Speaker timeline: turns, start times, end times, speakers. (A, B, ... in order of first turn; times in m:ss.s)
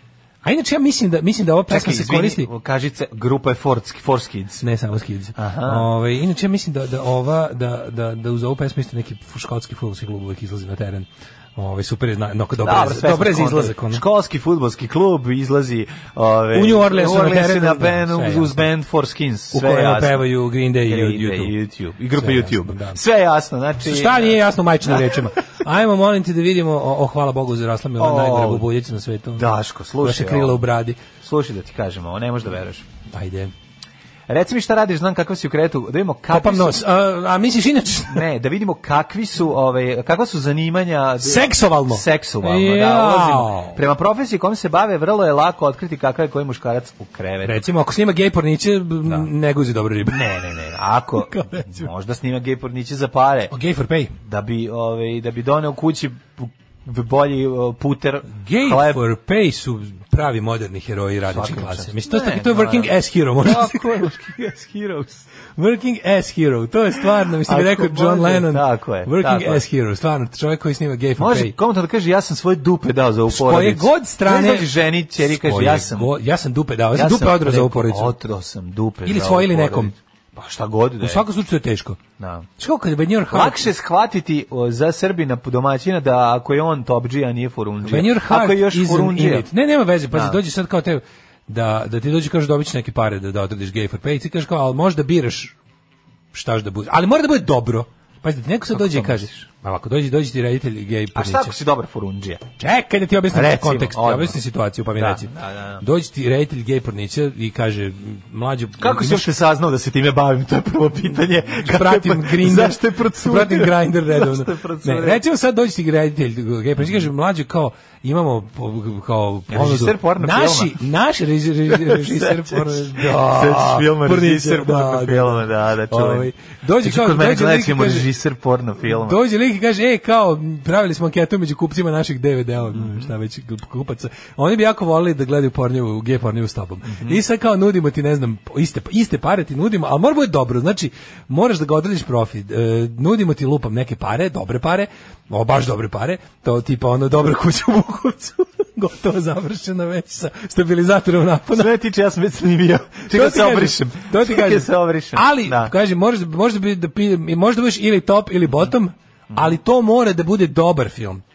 0:00.4-0:02.5 A
0:01.7-0:04.6 B
0:04.6-0:14.0 A
0:05.3-0:05.9 B
0:12.6-0:20.2 B
0:16.5-0:18.7 A
0:19.5-0:21.5 A
0:20.8-0:25.1 B
0:22.2-0:23.0 A
0:23.8-0:31.0 A
0:28.0-0:28.6 B
0:29.3-0:30.6 B
0:31.2-0:32.8 B
0:33.1-0:33.5 A
0:34.3-0:36.8 B
0:36.3-0:38.2 A
0:38.1-0:47.6 B
0:41.2-0:43.8 A
0:47.4-0:50.3 A
0:50.0-0:53.5 B
0:51.2-0:51.9 A
0:53.5-0:54.1 A
0:54.2-0:59.0 B
0:58.3-1:04.1 A
1:01.3-1:05.2 B
1:05.6-1:11.6 A
1:07.4-1:09.6 B
1:11.2-1:16.1 B
1:13.3-1:18.2 A
1:16.9-1:21.2 B
1:19.0-1:19.9 A
1:21.0-1:22.0 A
1:22.2-1:22.5 B
1:22.6-1:23.7 A
1:23.3-1:29.5 B
1:27.8-1:35.6 A
1:30.1-1:30.4 B
1:36.3-1:41.6 A
1:38.7-1:39.4 B
1:41.1-1:42.4 B
1:42.6-1:49.3 A
1:43.3-1:44.4 B
1:45.0-1:45.8 B
1:48.8-1:55.2 B
1:51.4-2:08.1 A
1:59.5-2:00.8 B
2:01.7-2:09.2 B
2:08.8-2:31.7 A
2:12.7-2:13.1 B
2:16.8-2:17.2 B
2:31.5-2:35.7 B
2:33.1-2:41.2 A
2:39.3-2:39.6 B